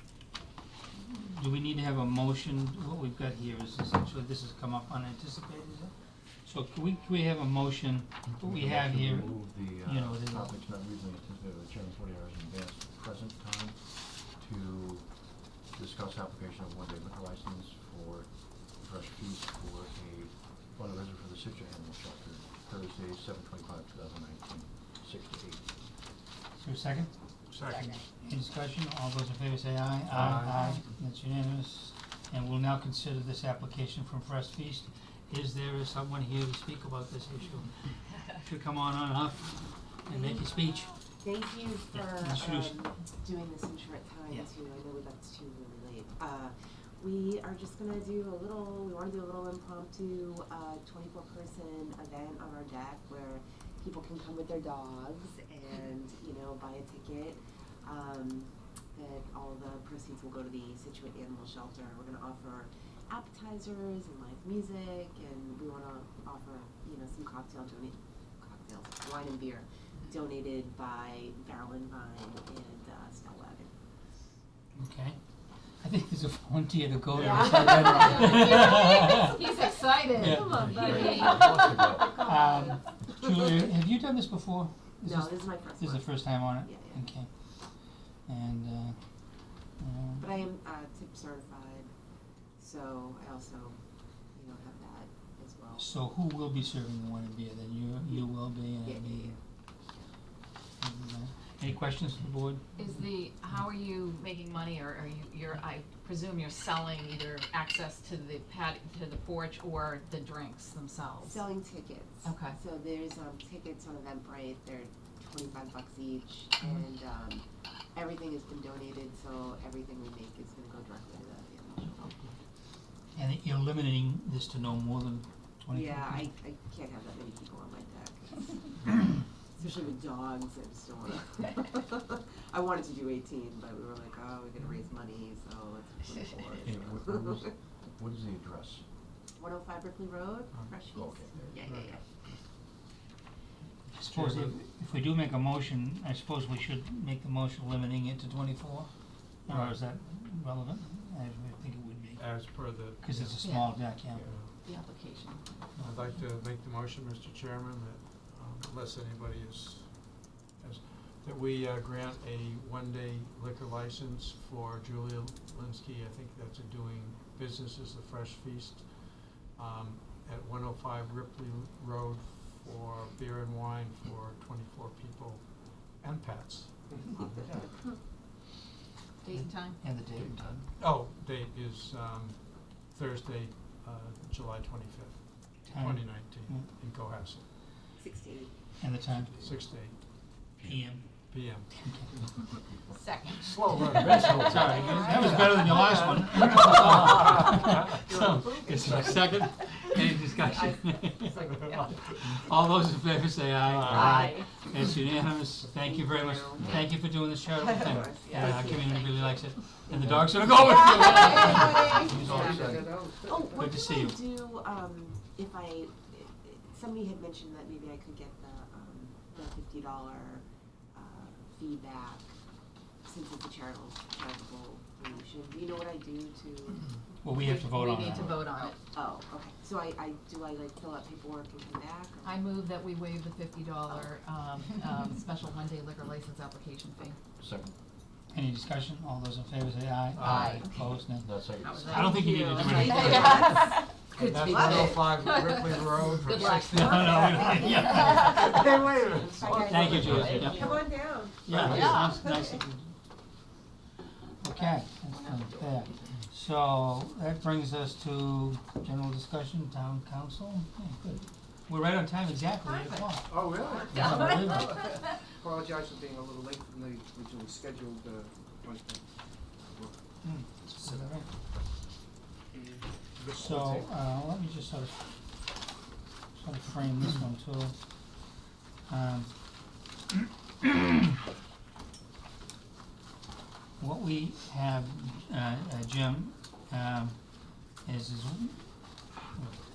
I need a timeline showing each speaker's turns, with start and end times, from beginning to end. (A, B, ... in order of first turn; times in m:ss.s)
0:01.0-0:10.6 A
0:08.4-0:25.7 B
0:26.6-0:40.9 A
0:27.5-0:27.9 C
0:30.1-0:30.9 C
0:40.1-1:13.7 D
0:41.9-0:42.9 A
1:14.8-1:19.3 A
1:17.1-1:18.1 C
1:17.2-1:18.7 D
1:17.7-1:22.1 E
1:20.2-1:20.6 A
1:20.2-1:23.1 D
1:20.3-1:22.1 B
1:22.2-1:27.3 A
1:25.0-1:27.0 D
1:28.3-1:30.4 A
1:30.2-1:31.9 D
1:32.6-1:33.8 D
1:34.3-1:35.9 D
1:35.8-1:39.4 A
1:38.8-1:40.1 D
1:40.8-1:42.9 A
1:42.8-1:51.5 E
1:51.2-2:02.2 D
1:52.2-1:52.6 E
2:03.2-2:06.3 A
2:05.7-2:17.5 D
2:16.5-2:18.8 B
2:19.4-2:22.0 D
2:20.5-2:20.8 C
2:20.9-2:21.6 B
2:21.3-2:22.4 C
2:23.9-2:32.5 A
2:24.1-2:24.6 C
2:29.5-2:29.9 C
2:32.2-2:34.5 C
2:33.0-2:34.3 A
2:33.4-2:33.9 E
2:34.6-2:35.5 E
2:35.8-2:57.4 C
2:56.9-2:57.6 F
2:59.2-2:59.8 E
2:59.3-3:00.7 A
3:00.2-3:00.6 B
3:00.8-3:07.4 C
3:05.7-3:06.7 A
3:08.0-3:08.5 D
3:08.8-3:09.3 A
3:09.3-3:10.0 C
3:10.6-3:11.1 A
3:11.3-3:11.7 C
3:11.7-3:12.1 A
3:12.9-3:15.3 E
3:13.4-3:14.9 C
3:14.1-3:14.4 B
3:14.4-3:21.4 A
3:14.6-3:15.6 D
3:15.5-3:16.0 C
3:17.6-3:17.9 C
3:18.0-3:19.2 D
3:20.5-3:21.9 E
3:21.4-3:22.4 C
3:22.2-3:33.0 A
3:23.6-3:24.3 C
3:23.9-3:24.5 E
3:25.8-3:26.7 D
3:27.6-3:28.9 D
3:28.2-3:29.4 E
3:30.0-3:30.4 B
3:30.5-3:42.3 D
3:31.0-3:32.7 E
3:32.1-3:33.7 F
3:33.6-3:34.2 A
3:43.1-3:46.8 D
3:47.2-3:48.4 A
3:47.3-3:48.8 E
3:48.6-3:52.4 D
3:52.2-3:57.2 E
3:57.4-3:57.8 B
3:58.3-4:03.7 A
4:00.1-4:00.6 C
4:00.2-4:00.7 E
4:01.2-4:02.2 B
4:01.6-4:08.5 E
4:02.2-4:03.6 D
4:04.1-4:10.6 C
4:04.3-4:05.0 D
4:06.6-4:08.7 A
4:08.5-4:12.6 D
4:08.5-4:10.7 F
4:09.6-4:10.9 A
4:11.4-4:13.0 A
4:11.5-4:12.3 E
4:14.4-4:23.3 A
4:14.6-4:16.0 E
4:22.6-4:25.0 E
4:23.3-4:31.6 F
4:23.9-4:25.1 A
4:30.2-4:31.3 A
4:32.5-4:33.8 C
4:33.4-4:35.6 A
4:36.4-4:38.3 A
4:38.9-4:39.8 A
4:40.6-4:41.1 A
4:43.8-4:47.2 A
4:47.8-4:48.8 A
4:49.3-4:49.6 A